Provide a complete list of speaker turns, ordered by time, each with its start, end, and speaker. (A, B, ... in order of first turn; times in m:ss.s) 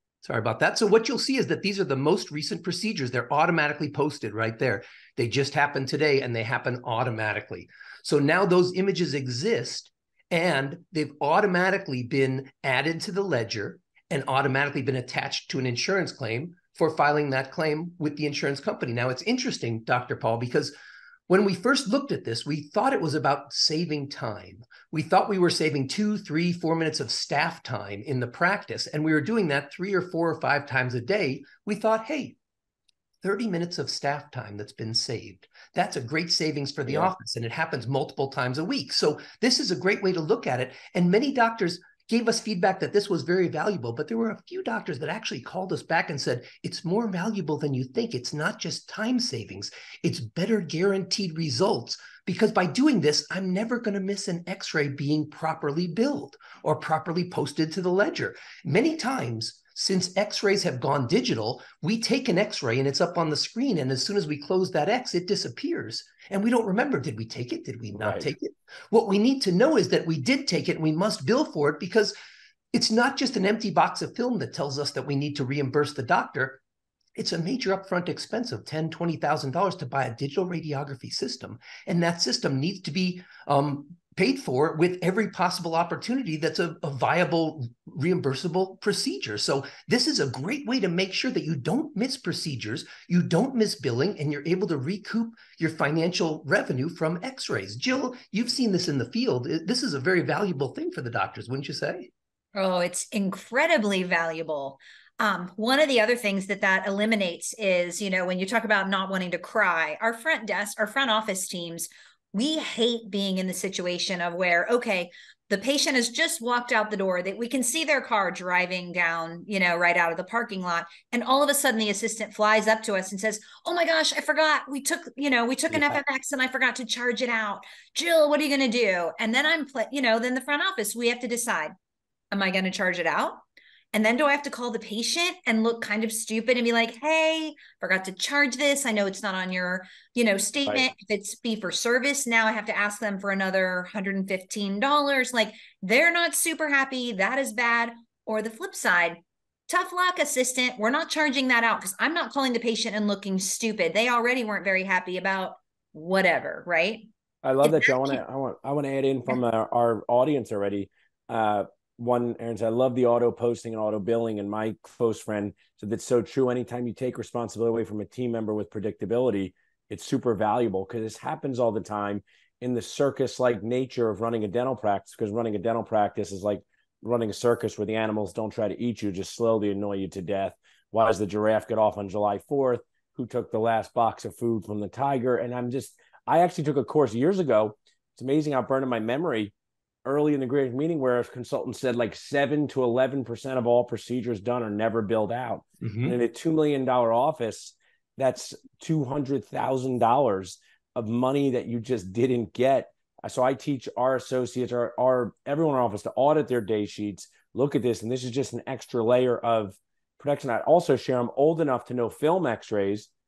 0:00.2-0:20.7 A
0:21.3-0:32.4 A
0:33.2-1:12.1 A
0:36.9-0:37.1 B
1:07.9-1:08.3 B
1:12.7-1:16.6 A
1:17.2-1:42.1 A
1:42.5-2:11.7 C
2:05.7-2:06.0 B
2:12.3-2:13.4 C
2:13.9-2:37.1 C
2:37.4-3:09.5 B
2:37.6-2:38.2 C
3:10.0-3:33.1 B
3:15.8-3:16.2 A